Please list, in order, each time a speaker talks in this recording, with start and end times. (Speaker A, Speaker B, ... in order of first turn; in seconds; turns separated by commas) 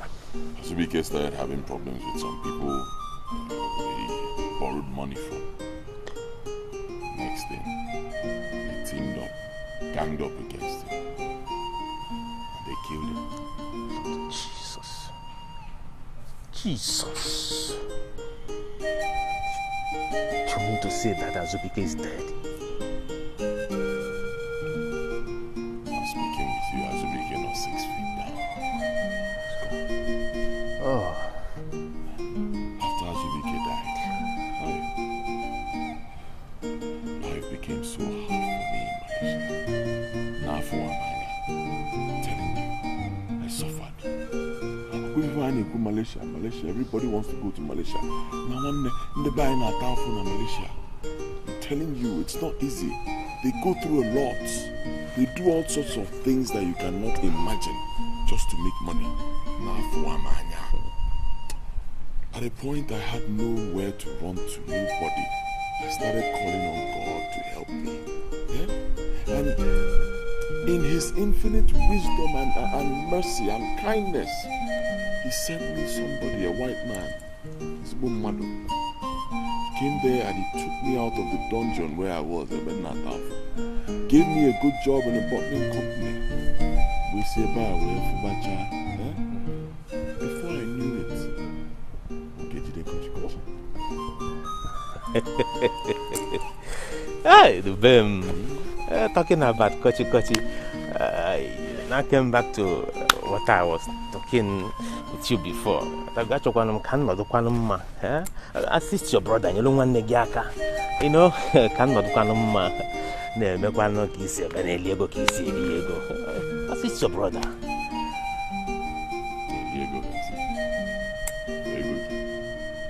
Speaker A: 0.6-5.5, Speaker A: 7.1-7.7, Speaker A: 8.6-9.3, Speaker A: 9.9-11.0, Speaker A: 12.5-13.2, Speaker B: 13.9-15.1, Speaker B: 16.5-17.8, Speaker B: 20.4-22.4, Speaker A: 25.9-28.6, Speaker A: 29.5-29.8, Speaker B: 30.8-31.4, Speaker A: 32.8-34.9, Speaker A: 37.2-39.5, Speaker A: 40.4-41.4, Speaker A: 42.2-42.7, Speaker A: 43.4-44.0, Speaker A: 44.9-50.8, Speaker A: 51.4-60.8, Speaker A: 62.3-69.9, Speaker A: 70.6-74.5, Speaker A: 75.2-77.2, Speaker A: 77.8-78.5, Speaker A: 79.7-83.4, Speaker A: 83.9-86.2, Speaker A: 87.0-89.2, Speaker A: 90.2-91.3, Speaker A: 92.4-93.4, Speaker B: 95.1-96.4, Speaker B: 97.2-117.5, Speaker A: 119.5-120.4, Speaker A: 121.7-122.1